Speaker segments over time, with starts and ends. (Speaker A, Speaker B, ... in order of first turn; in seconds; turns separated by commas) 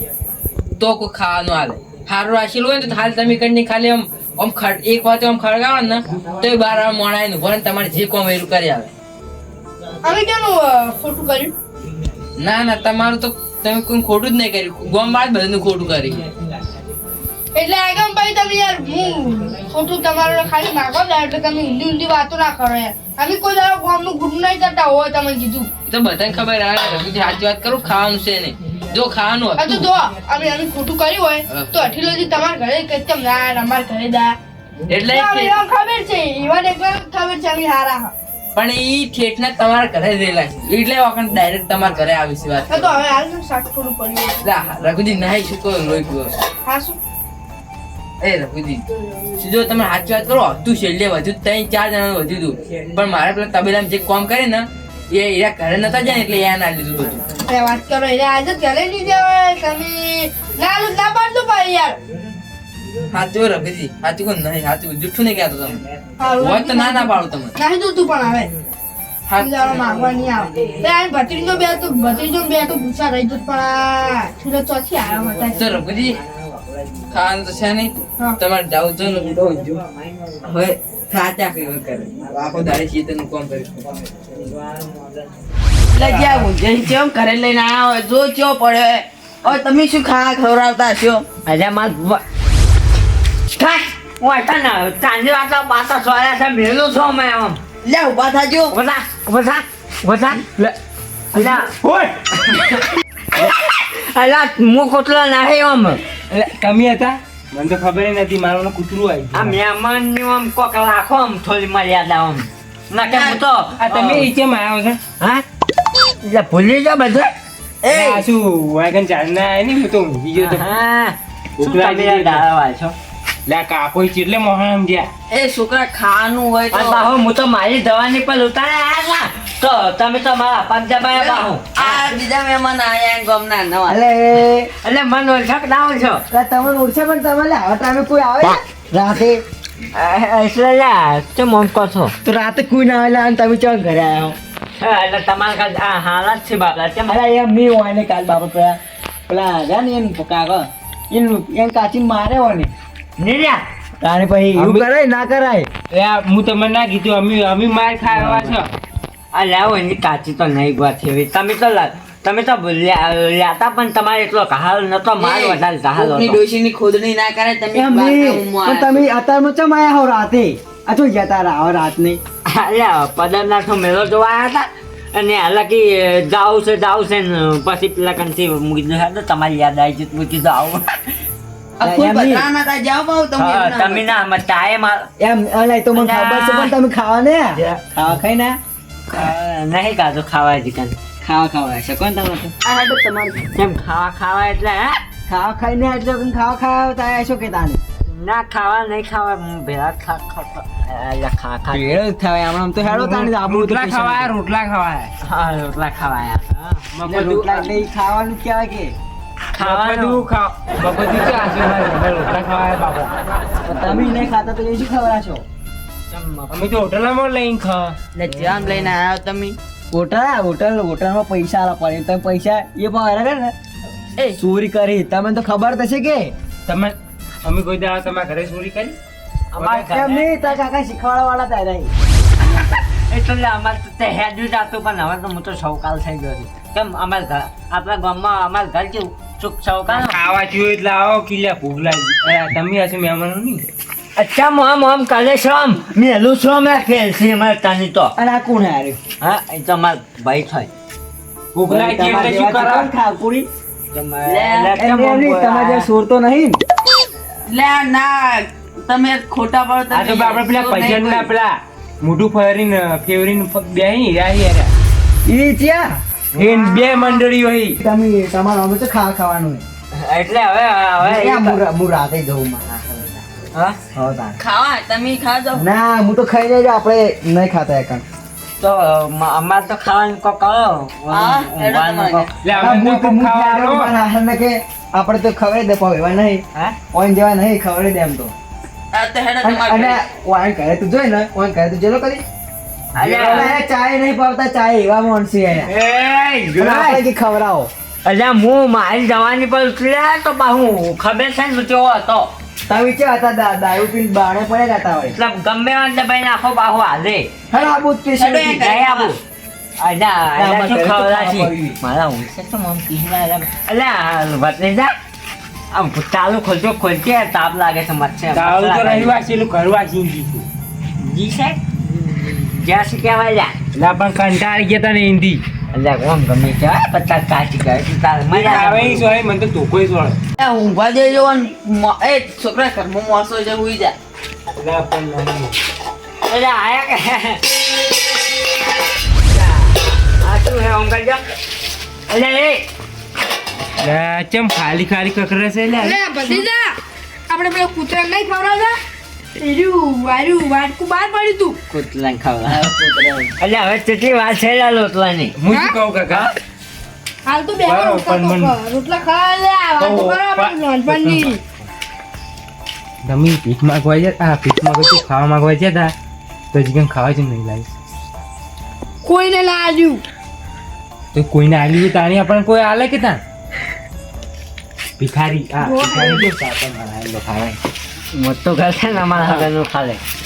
Speaker A: 0.8-8.9, Speaker B: 10.0-11.5, Speaker A: 12.4-16.2, Speaker B: 17.5-25.7, Speaker A: 25.9-29.9, Speaker B: 29.6-34.4, Speaker A: 34.9-35.6, Speaker B: 35.1-38.1, Speaker A: 38.6-43.0, Speaker B: 42.7-44.4, Speaker A: 44.4-46.3, Speaker B: 46.6-47.0, Speaker A: 48.2-48.9, Speaker A: 49.4-57.2, Speaker B: 57.5-62.0, Speaker A: 63.1-65.8, Speaker B: 66.2-68.5, Speaker A: 66.4-67.5, Speaker A: 69.3-70.0, Speaker B: 69.4-75.8, Speaker A: 75.6-76.2, Speaker A: 77.1-79.8, Speaker A: 80.4-83.9, Speaker C: 85.9-91.3, Speaker A: 86.0-86.5, Speaker D: 91.5-92.2, Speaker D: 93.5-97.6, Speaker C: 97.8-98.8, Speaker D: 98.7-100.4, Speaker E: 101.3-102.5, Speaker D: 101.4-101.7, Speaker D: 103.4-106.0, Speaker E: 106.3-109.6, Speaker D: 109.3-114.3, Speaker C: 113.1-113.4, Speaker E: 113.8-115.0, Speaker D: 116.2-117.3, Speaker C: 117.8-118.2, Speaker E: 117.9-120.8, Speaker D: 120.4-122.9, Speaker E: 121.6-122.5, Speaker E: 123.5-125.1, Speaker C: 125.3-127.1, Speaker D: 126.7-132.0, Speaker C: 131.1-134.0, Speaker F: 133.9-134.7, Speaker D: 134.8-136.2, Speaker F: 136.3-139.4, Speaker D: 139.9-142.1, Speaker F: 142.2-144.4, Speaker D: 144.8-147.1, Speaker F: 147.1-152.7, Speaker D: 153.2-153.6, Speaker F: 154.0-155.7, Speaker E: 154.6-154.8, Speaker E: 155.9-158.7, Speaker D: 159.3-166.4, Speaker C: 165.2-169.1, Speaker F: 167.7-172.2, Speaker D: 172.5-181.0, Speaker C: 181.8-184.2, Speaker F: 181.8-182.5, Speaker D: 183.4-185.1, Speaker F: 185.2-188.6, Speaker D: 185.9-186.7, Speaker D: 189.1-191.0, Speaker F: 191.2-192.5, Speaker C: 192.7-193.4, Speaker D: 193.6-195.0, Speaker F: 195.3-197.8, Speaker D: 198.0-201.9, Speaker C: 201.7-202.4, Speaker E: 202.8-205.1, Speaker F: 202.8-204.3, Speaker D: 205.2-206.8, Speaker E: 206.9-207.7, Speaker F: 207.1-209.0, Speaker D: 209.6-210.2, Speaker E: 209.6-213.1, Speaker F: 213.7-215.4, Speaker D: 216.1-216.7, Speaker E: 216.5-218.0, Speaker C: 218.2-219.6, Speaker F: 219.9-223.5, Speaker F: 224.3-226.3, Speaker E: 226.7-229.0, Speaker E: 229.6-230.1, Speaker F: 229.6-231.9, Speaker D: 229.6-230.2, Speaker D: 232.4-240.2, Speaker E: 239.9-243.7, Speaker D: 244.2-248.1, Speaker F: 248.2-249.0, Speaker D: 249.2-250.7, Speaker E: 251.6-252.9, Speaker F: 251.7-253.5, Speaker D: 253.9-255.8, Speaker C: 254.2-255.7, Speaker F: 254.8-256.6, Speaker C: 257.5-261.3, Speaker E: 259.9-264.7, Speaker F: 265.3-266.0, Speaker E: 266.3-267.8, Speaker F: 267.8-269.6, Speaker D: 270.0-271.6, Speaker F: 271.0-273.2, Speaker F: 273.9-274.4, Speaker C: 274.4-275.7, Speaker F: 275.5-278.0, Speaker D: 278.6-282.3, Speaker C: 281.1-282.3, Speaker E: 282.4-283.9, Speaker F: 282.6-288.3, Speaker C: 288.9-290.0, Speaker F: 289.4-292.2, Speaker D: 293.0-293.6, Speaker E: 293.0-293.5, Speaker F: 293.1-295.7, Speaker D: 295.7-297.0, Speaker F: 296.6-297.7, Speaker D: 298.1-302.3, Speaker F: 302.7-305.2, Speaker D: 305.2-307.3, Speaker F: 307.5-308.6, Speaker C: 308.1-309.2, Speaker D: 308.6-309.2, Speaker D: 309.8-314.9, Speaker F: 310.4-311.8, Speaker D: 315.7-319.1, Speaker E: 318.3-320.5, Speaker D: 321.0-323.6, Speaker E: 323.8-325.4, Speaker D: 325.7-329.1, Speaker E: 328.3-330.2, Speaker C: 330.4-334.0, Speaker E: 334.6-335.6, Speaker D: 336.3-337.4, Speaker D: 339.3-339.6, Speaker D: 340.2-341.2, Speaker D: 342.1-342.6, Speaker E: 343.8-346.4, Speaker B: 345.8-346.8, Speaker B: 347.3-348.8, Speaker B: 349.4-351.6, Speaker D: 351.7-352.6, Speaker C: 352.5-353.3, Speaker D: 353.4-355.3, Speaker E: 355.4-356.3, Speaker B: 355.5-355.8, Speaker B: 357.2-361.4, Speaker E: 357.6-358.6, Speaker E: 359.8-361.4, Speaker E: 363.0-365.9, Speaker E: 366.5-367.7, Speaker B: 369.0-370.0, Speaker E: 371.1-373.2, Speaker E: 375.0-377.6, Speaker B: 375.6-376.3, Speaker D: 378.1-380.0, Speaker E: 379.1-379.5